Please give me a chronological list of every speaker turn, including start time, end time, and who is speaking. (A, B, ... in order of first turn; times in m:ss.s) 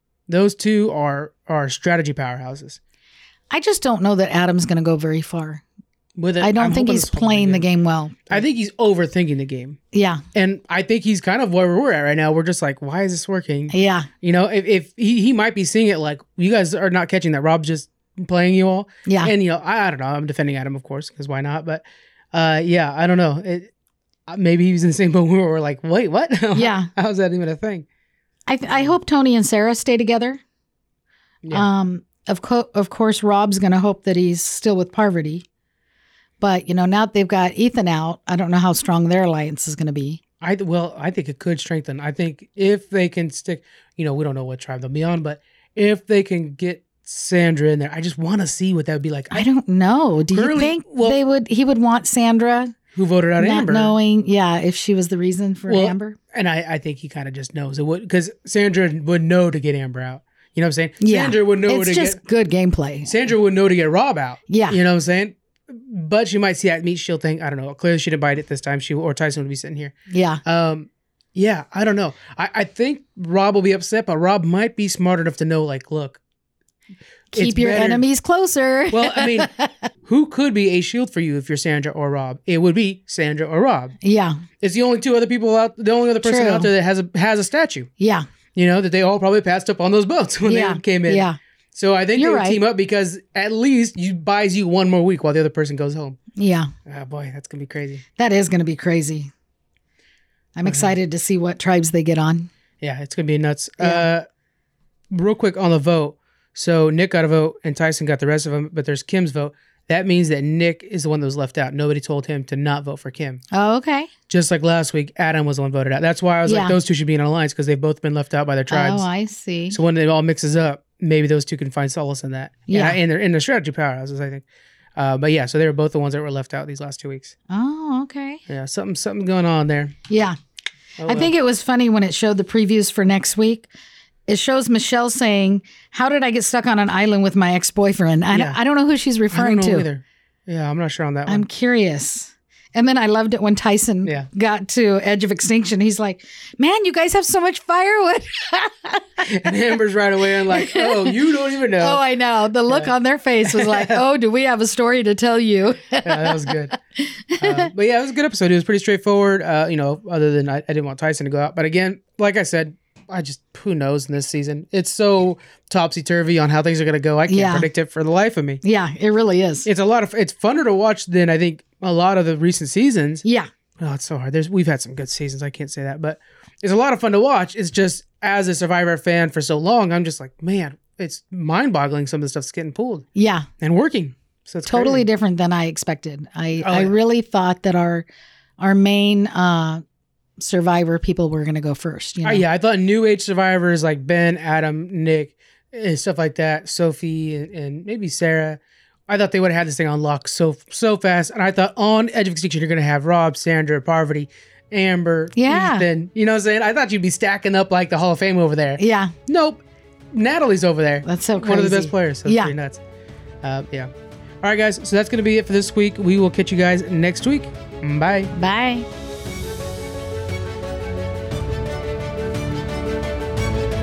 0:00.3-0:02.8 A
0:03.5-0:05.6 B
0:06.2-0:07.6 A
0:06.4-0:08.4 B
0:08.3-0:09.8 A
0:09.9-0:10.2 B
0:10.3-0:23.7 A
0:13.7-0:14.1 B
0:19.1-0:19.3 B
0:24.3-0:27.9 A
0:26.6-0:26.9 B
0:28.5-0:30.4 B
0:31.5-0:35.4 B
0:36.4-0:40.2 B
0:40.4-0:49.5 A
0:49.3-0:52.8 B
0:50.3-0:51.2 A
0:53.0-0:54.0 A
0:53.4-0:56.2 B
0:55.7-1:02.2 A
1:01.0-1:03.2 B
1:03.1-1:16.2 A
1:04.5-1:04.8 B
1:10.1-1:10.4 B
1:17.3-1:19.7 B
1:17.3-1:18.0 A
1:18.9-1:19.5 A
1:20.0-1:24.0 A
1:24.0-1:24.4 B
1:24.6-1:27.9 A
1:26.2-1:26.7 B
1:28.0-1:28.3 B
1:28.6-1:36.2 A
1:30.5-1:31.4 B
1:32.2-1:32.6 B
1:36.4-1:36.7 B
1:36.9-1:38.0 A
1:38.2-1:39.3 B
1:40.6-1:42.5 B
1:40.6-1:40.9 A
1:42.8-1:44.3 A
1:45.1-1:53.4 A
1:53.5-1:54.1 B
1:54.3-1:59.1 A
1:56.5-1:56.8 B
1:58.7-1:59.8 B
1:59.7-2:04.4 A
2:02.7-2:03.0 B
2:05.0-2:07.4 A
2:07.5-2:08.4 B
2:08.5-2:10.0 A
2:10.1-2:10.4 B
2:11.0-2:11.3 A
2:11.1-2:13.7 B
2:14.3-2:19.9 B
2:18.3-2:18.6 A
2:19.3-2:21.5 A
2:21.3-2:29.1 B
2:29.2-2:32.0 A
2:30.5-2:31.2 B
2:31.8-2:37.7 B
2:33.4-2:34.0 A
2:36.0-2:36.7 A
2:37.4-2:48.6 A
2:47.3-2:47.7 B
2:48.6-2:49.7 B
2:49.6-2:53.2 A
2:53.8-3:03.1 A
3:03.2-3:03.5 B
3:03.6-3:05.1 A
3:04.7-3:08.1 B
3:06.6-3:06.9 A
3:08.6-3:09.8 B
3:10.4-3:12.4 B
3:12.2-3:29.6 A
3:25.4-3:25.9 B
3:28.8-3:29.1 B
3:30.1-3:32.8 A
3:31.1-3:32.5 B
3:33.4-3:33.9 A
3:34.4-3:38.3 A
3:38.3-3:38.9 B